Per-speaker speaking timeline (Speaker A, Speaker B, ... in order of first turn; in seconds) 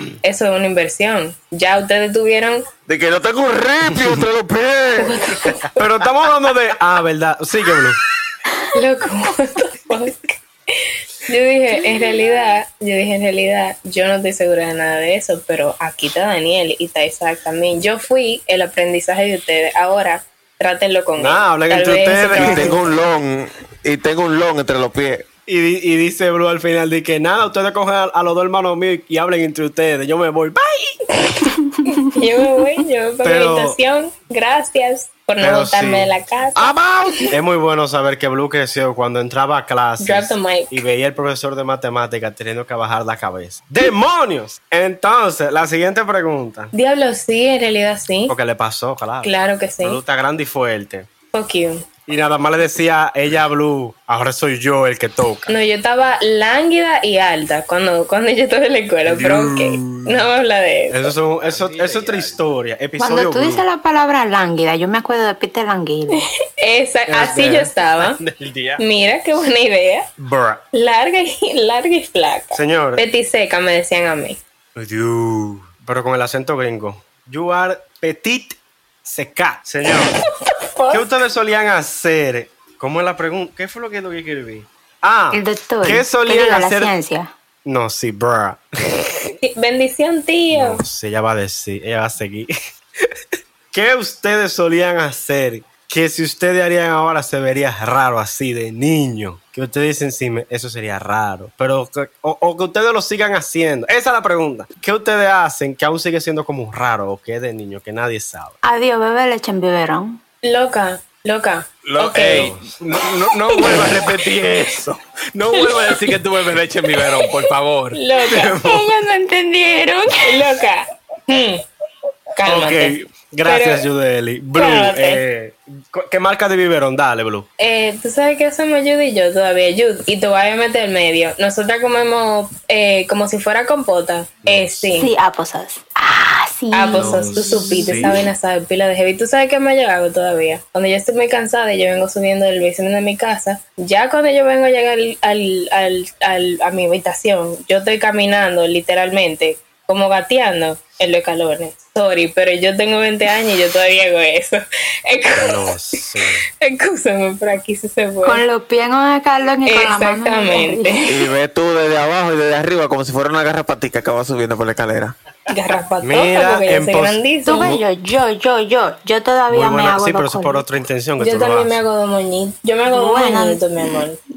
Speaker A: 0.2-2.7, 5.0-6.1, 8.7-22.8, 31.2-37.3, 40.0-40.8, 46.7-48.4, 49.2-50.0, 51.3-52.0, 55.5-61.1, 66.2-68.2, 68.8-70.1, 70.7-74.4, 79.9-81.2, 89.4-90.8, 110.4-112.5, 115.5-116.0, 117.0-117.3, 117.9-118.6, 120.2-121.6, 122.3-123.9, 124.5-125.2, 127.6-135.1, 136.7-155.7, 156.5-158.4, 159.7-161.2, 165.5-167.8, 171.2-174.2
Speaker B: 2.9-5.2, 22.3-25.3, 36.5-37.3, 161.1-165.1
Speaker C: 5.7-8.0, 21.2-22.8, 25.5-31.0, 33.2-33.8, 35.4-36.1, 37.3-46.7, 48.3-51.1, 52.1-55.5, 59.1-60.3, 60.9-63.6, 67.1-67.7, 70.2-70.6, 72.5-73.0, 74.8-80.3, 80.9-86.9, 87.7-89.4, 90.5-92.5, 93.7-108.5, 112.3-112.8, 113.6-114.0, 118.2-118.9, 122.5-127.5, 134.4-135.1, 136.9-138.2, 155.4-156.4, 166.0-167.7, 169.5-171.8
Speaker D: 61.4-62.4, 68.0-68.8, 111.8-118.0
Speaker E: 63.0-66.3, 85.3-87.3, 108.6-110.2, 118.5-120.5, 134.9-138.3, 158.2-161.0, 167.4-170.7, 172.9-174.0